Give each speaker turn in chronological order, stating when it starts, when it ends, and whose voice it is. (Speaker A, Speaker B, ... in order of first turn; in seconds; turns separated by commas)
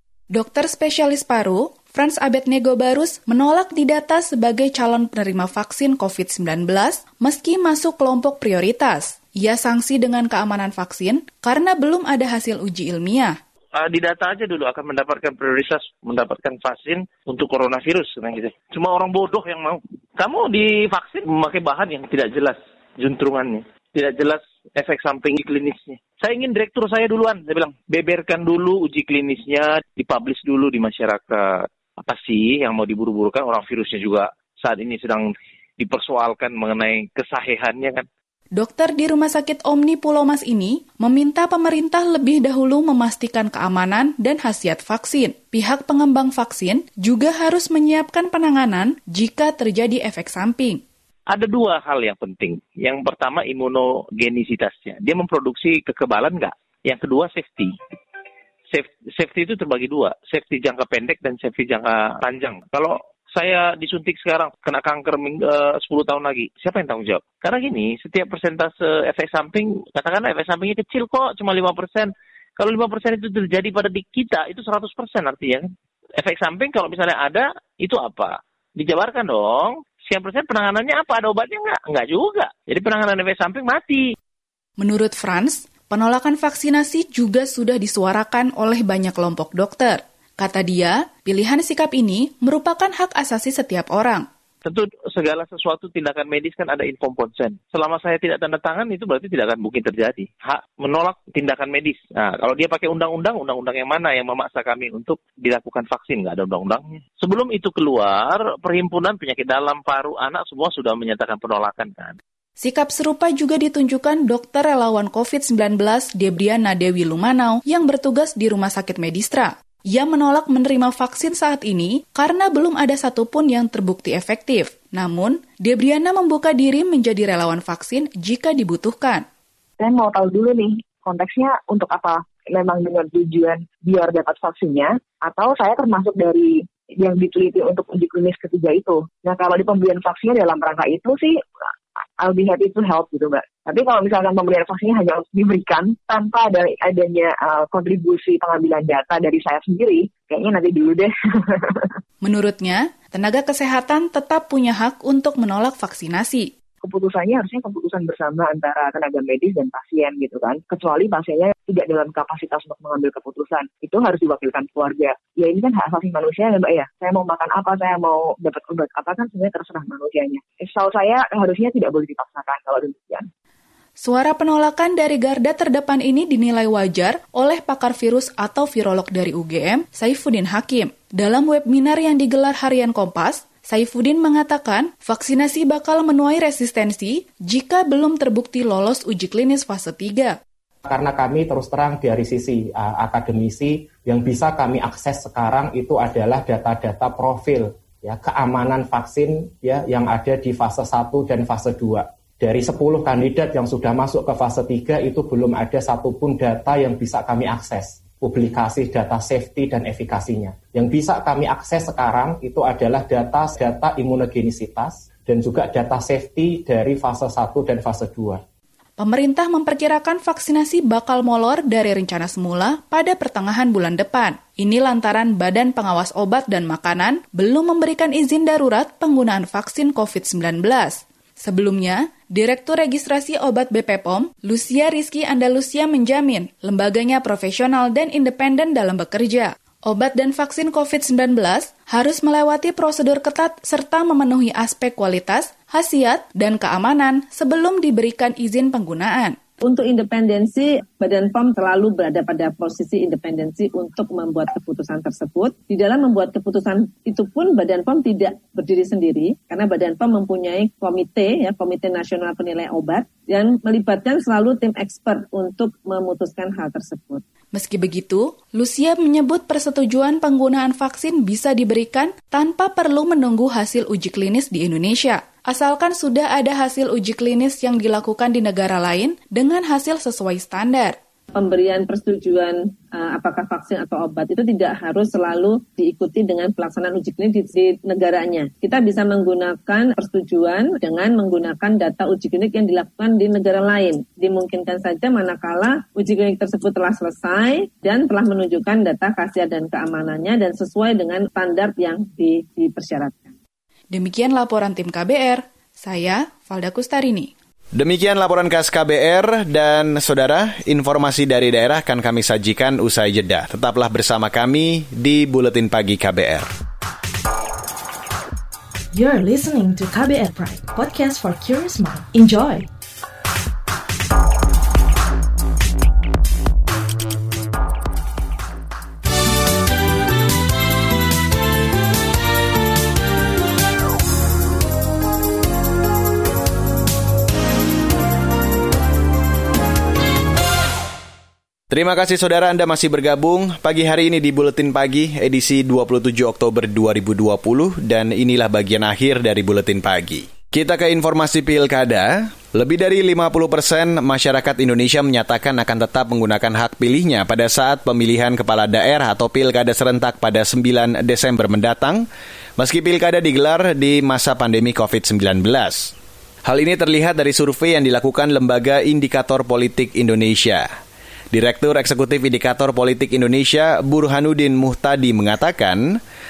Speaker A: 0.3-13.3, Speaker B: 13.8-38.1, Speaker A: 38.6-50.8, Speaker B: 51.3-57.8, Speaker B: 58.7-84.1, Speaker A: 84.8-94.3, Speaker B: 94.6-112.2, Speaker A: 112.6-129.2, Speaker C: 129.8-141.4, Speaker C: 142.2-151.9, Speaker A: 152.2-156.5, Speaker C: 156.8-173.3, Speaker A: 174.0-190.4, Speaker D: 190.9-218.4, Speaker A: 219.0-249.4, Speaker E: 249.6-267.2, Speaker A: 267.5-281.0, Speaker E: 281.4-303.4, Speaker A: 303.9-307.3, Speaker F: 307.8-316.5, Speaker G: 318.9-322.7, Speaker F: 341.7-362.1, Speaker F: 362.6-365.9, Speaker F: 366.5-370.7, Speaker F: 371.3-376.0